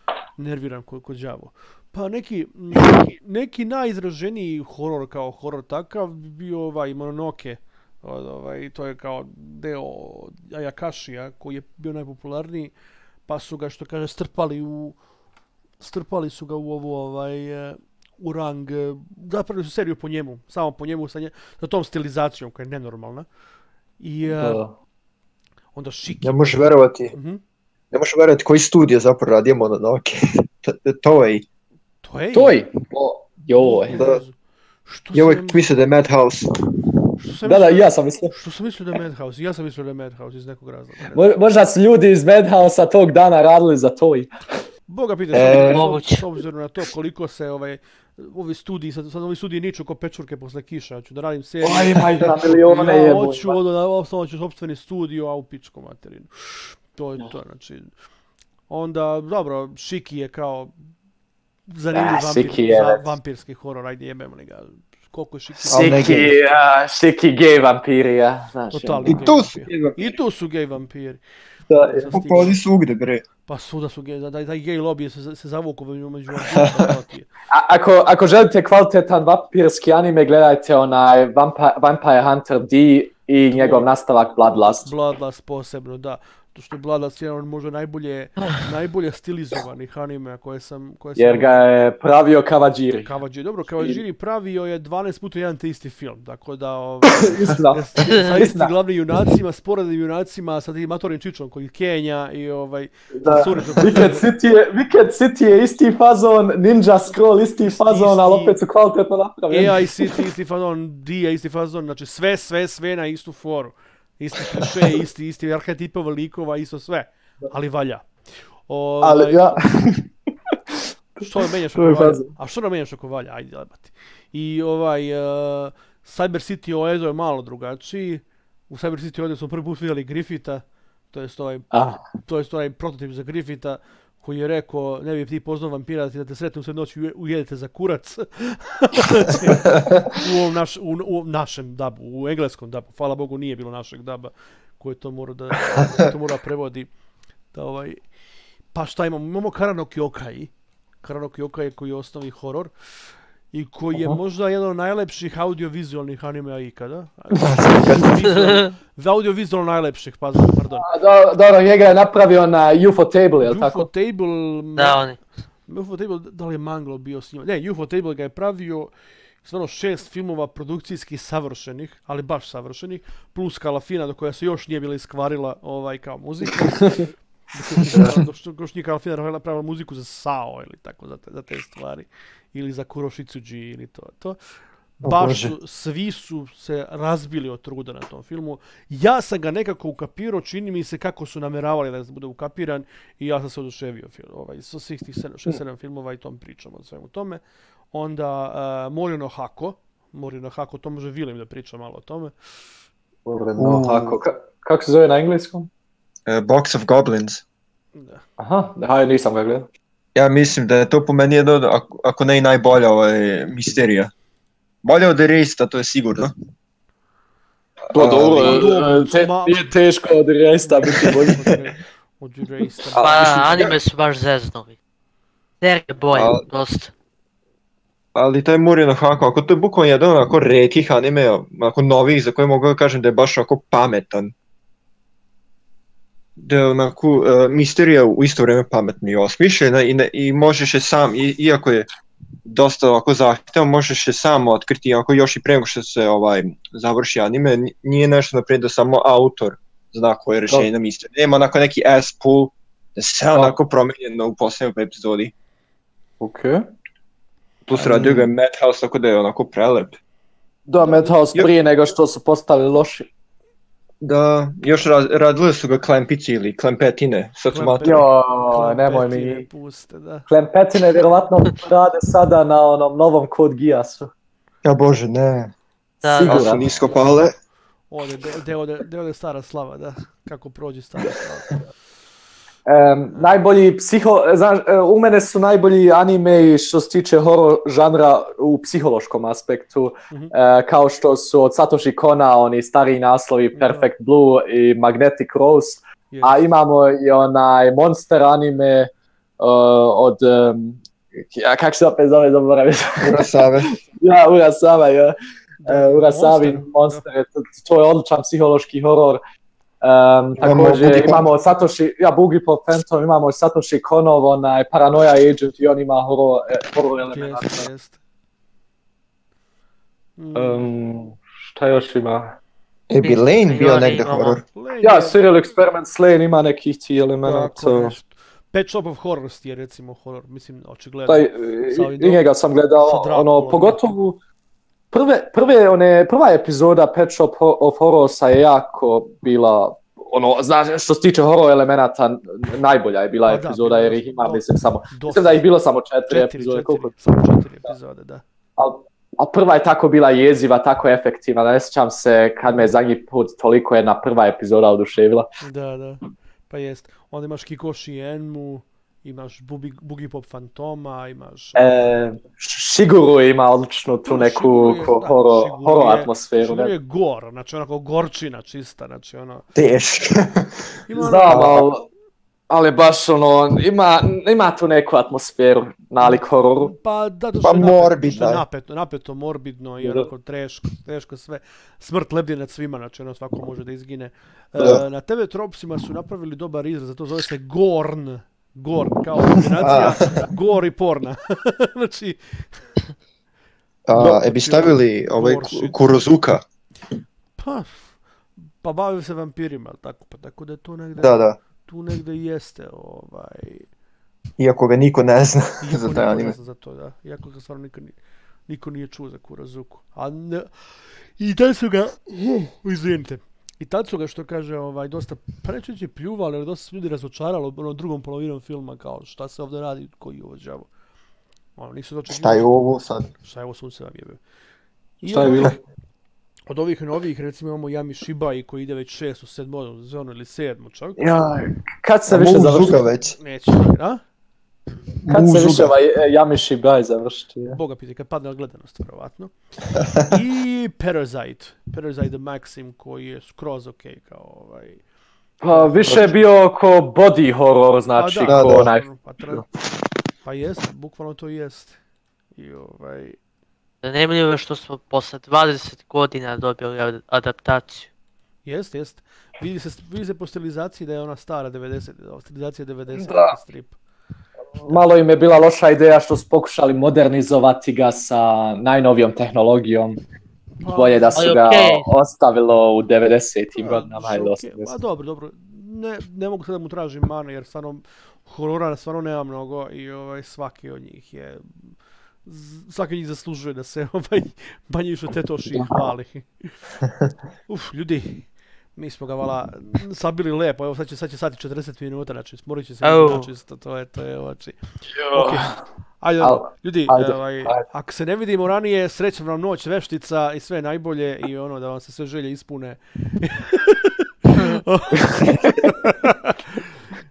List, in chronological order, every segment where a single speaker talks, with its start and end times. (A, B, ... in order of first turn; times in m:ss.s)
0:00.4-0:12.7 A
0:13.3-0:15.0 A
0:15.8-0:23.3 A
0:24.0-0:24.6 A
0:24.3-0:24.7 B
0:25.7-0:27.4 A
0:26.2-0:27.1 C
0:27.9-0:31.4 C
0:32.0-0:32.5 A
0:32.3-0:34.0 B
0:33.5-0:34.3 A
0:33.9-0:34.2 C
0:34.8-0:35.6 A
0:35.1-0:36.5 C
0:37.2-0:41.2 A
0:37.4-0:38.3 B
0:41.1-0:44.3 B
0:44.9-0:57.9 A
0:45.3-0:45.8 C
0:45.4-0:46.2 D
0:51.6-0:53.6 B
0:58.7-1:00.7 A
1:01.7-1:06.3 A
1:01.9-1:03.1 B
1:05.6-1:09.2 B
1:05.7-1:06.3 C
1:08.7-1:11.2 A
1:09.1-1:10.2 C
1:11.7-1:12.2 B
1:11.9-1:12.6 A
1:12.1-1:13.2 C
1:13.5-1:17.3 A
1:16.5-1:16.8 C
1:17.5-1:24.9 B
1:23.5-1:23.9 A
1:24.7-1:31.6 A
1:31.2-1:33.1 B
1:33.0-1:44.3 A
1:37.1-1:38.7 B
1:43.2-1:50.1 B
1:47.6-1:48.6 A
1:49.5-1:58.1 A
1:58.7-1:59.5 A
1:59.0-2:00.5 B
2:01.2-2:11.6 A
2:01.7-2:02.3 B
2:11.7-2:12.0 B
2:12.2-2:26.9 A
2:27.5-2:28.0 A
2:28.7-2:32.7 A
2:33.5-2:40.9 A
2:38.4-2:38.7 D
2:40.8-2:43.9 B
2:43.4-2:45.0 A
2:44.8-2:45.2 D
2:45.7-2:48.9 A
2:49.4-2:57.0 A
2:57.5-3:04.4 A
3:05.0-3:05.5 C
3:05.0-3:22.3 A
3:23.2-3:25.7 B
3:23.6-3:24.2 C
3:26.3-3:27.4 C
3:28.0-3:28.2 A
3:28.4-3:29.7 B
3:30.1-3:34.1 C
3:34.8-3:36.3 C
3:37.9-3:38.7 C
3:37.9-3:41.5 B
3:38.4-3:39.7 A
3:40.6-3:43.7 A
3:43.0-3:44.7 D
3:43.0-3:43.6 B
3:45.6-3:46.9 D
3:46.1-3:46.4 C
3:48.1-3:54.3 C
3:56.4-4:01.9 C
4:02.5-4:15.3 C
4:16.2-4:16.6 B
4:17.7-4:18.3 B
4:17.7-4:20.0 C
4:20.7-4:23.1 B
4:20.8-4:21.2 A
4:24.0-4:28.0 C
4:27.5-4:30.3 A
4:27.8-4:29.4 B
4:30.3-4:34.1 B
4:34.6-4:35.5 C
4:36.0-4:36.7 D
4:36.1-4:36.7 B
4:36.1-4:37.3 C
4:36.8-4:37.2 A
4:37.9-4:41.6 A
4:42.7-5:03.3 B
4:53.5-4:53.9 A
4:56.1-4:56.4 A
5:03.0-5:03.8 C
5:03.8-5:05.1 B
5:05.6-5:07.0 A
5:05.6-5:09.2 B
5:09.8-5:17.7 B
5:10.4-5:11.2 C
5:17.0-5:18.0 A
5:20.2-5:20.7 A
5:20.3-5:22.3 B
5:22.9-5:24.4 C
5:23.0-5:24.4 D
5:24.5-5:25.2 A
5:24.8-5:27.9 B
5:27.2-5:32.2 A
5:31.1-5:34.2 B
5:32.8-5:34.0 A
5:34.9-5:46.9 B
5:43.3-5:45.4 A
5:46.1-5:48.2 A
5:48.6-5:55.3 B
5:55.4-6:01.7 A
6:01.5-6:06.7 B
6:04.1-6:09.4 A
6:09.6-6:10.6 C
6:10.9-6:11.6 A
6:11.0-6:11.8 B
6:11.2-6:11.6 C
6:12.5-6:16.7 B
6:16.0-6:32.6 A
6:17.4-6:18.4 C
6:29.6-6:30.2 C
6:33.9-6:36.4 C
6:33.9-6:35.8 A
6:37.4-6:37.9 A
6:38.6-6:43.7 A
6:41.0-6:41.4 C
6:44.4-6:46.3 C
6:45.6-6:48.0 A
6:48.5-6:50.6 A
6:51.2-7:00.7 A
7:01.6-7:02.5 A
7:02.1-7:03.1 C
7:03.1-7:04.2 A
7:05.0-7:05.6 A
7:05.0-7:05.6 B
7:06.5-7:11.2 A
7:11.0-7:12.8 B
7:12.1-7:13.2 C
7:13.2-7:14.0 A
7:15.0-7:15.7 C
7:15.1-7:17.6 B
7:17.5-7:19.3 A
7:20.0-7:24.8 A
7:25.4-7:29.4 B
7:25.4-7:26.3 A
7:28.0-7:29.5 A
7:28.3-7:28.7 C
7:30.2-7:31.8 A
7:32.3-7:33.2 A
7:33.8-7:37.9 D
7:38.4-7:43.8 A
7:43.0-7:43.4 B
7:44.7-7:50.0 B
7:50.6-7:51.5 A
7:50.6-7:54.7 B
7:51.2-7:51.8 D
7:53.6-8:01.7 A
8:02.2-8:06.5 A
8:05.5-8:05.8 B
8:07.5-8:14.6 A
8:12.8-8:13.3 D
8:14.9-8:15.5 B
8:15.1-8:26.7 A
8:16.2-8:17.6 B